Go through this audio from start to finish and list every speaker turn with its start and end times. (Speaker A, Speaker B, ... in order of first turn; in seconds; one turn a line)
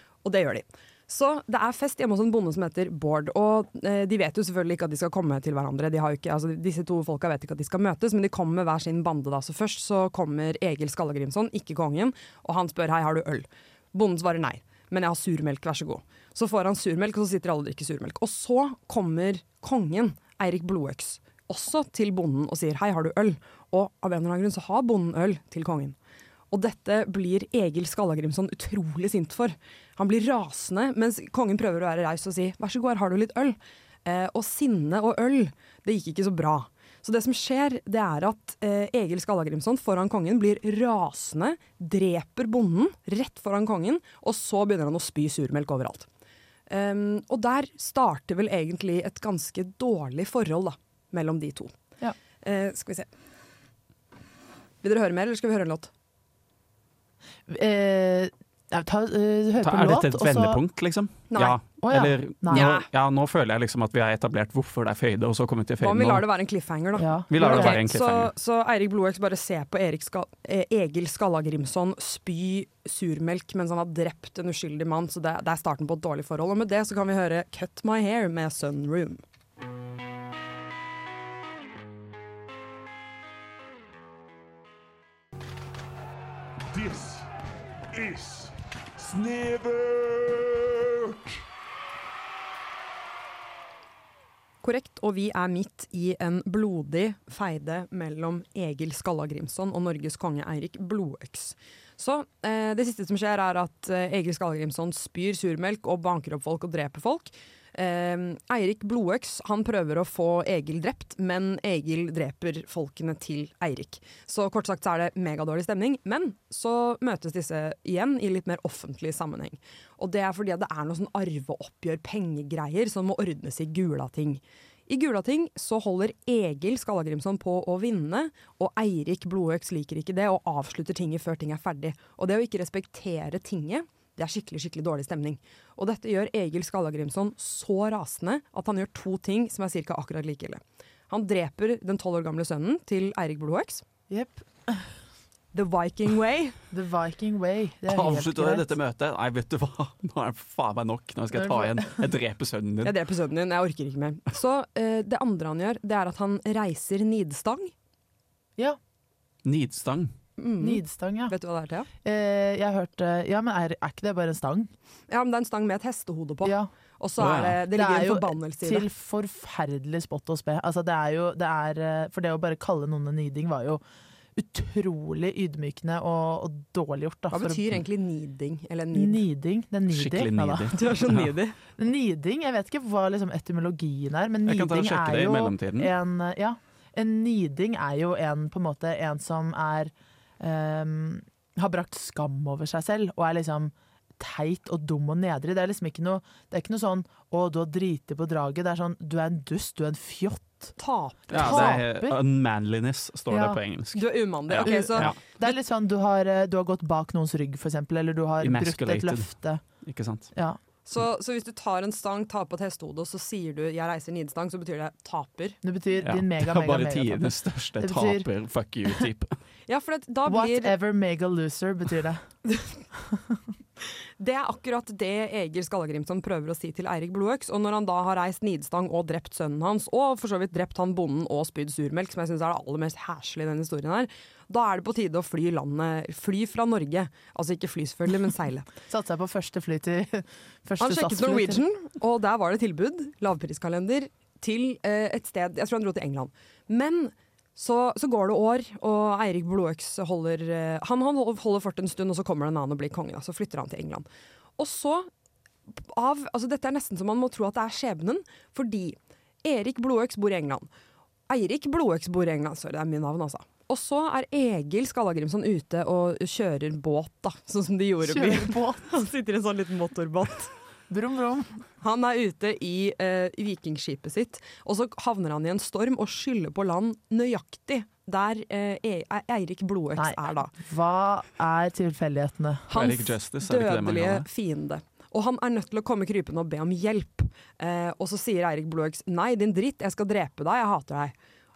Speaker A: 0.2-26.0
Speaker A: 26.5-46.1
Speaker A: 46.7-51.7
Speaker A: 52.4-53.1
Speaker A: 54.8-55.9
Speaker B: 57.5-60.6
Speaker C: 59.6-66.2
Speaker A: 61.3-61.6
Speaker B: 61.8-62.7
Speaker A: 62.5-62.9
Speaker A: 65.8-79.2
Speaker B: 67.0-67.8
Speaker C: 67.3-68.3
Speaker A: 94.6-143.8
Speaker B: 144.1-144.8
Speaker A: 145.5-146.6
Speaker B: 146.7-148.7
Speaker C: 147.9-152.9
Speaker B: 151.3-152.1
Speaker A: 152.8-157.7
Speaker C: 159.4-160.1
Speaker A: 160.4-161.9
Speaker B: 160.6-161.3
Speaker B: 162.0-164.7
Speaker A: 165.1-168.9
Speaker B: 166.4-166.7
Speaker C: 167.2-167.6
Speaker B: 167.7-173.8
Speaker B: 174.4-177.7
Speaker A: 177.3-179.2
Speaker B: 178.9-180.7
Speaker C: 179.9-181.3
Speaker A: 180.7-181.6
Speaker B: 181.8-200.7
Speaker C: 184.5-185.9
Speaker A: 200.8-201.8
Speaker B: 201.3-202.2
Speaker C: 201.3-205.2
Speaker B: 203.3-203.6
Speaker A: 203.9-205.1
Speaker B: 204.6-209.6
Speaker C: 208.4-209.3
Speaker C: 209.8-210.3
Speaker A: 210.9-215.6
Speaker B: 215.6-218.3
Speaker C: 216.0-219.4
Speaker A: 219.7-220.7
Speaker B: 220.3-222.2
Speaker A: 224.2-238.7
Speaker B: 238.9-241.6
Speaker A: 240.8-254.1
Speaker A: 254.6-255.1
Speaker A: 255.7-260.7
Speaker A: 261.3-270.5
Speaker B: 268.1-268.9
Speaker B: 270.9-271.6
Speaker A: 271.8-280.5
Speaker B: 280.0-282.7
Speaker A: 282.7-291.1
Speaker C: 282.7-284.3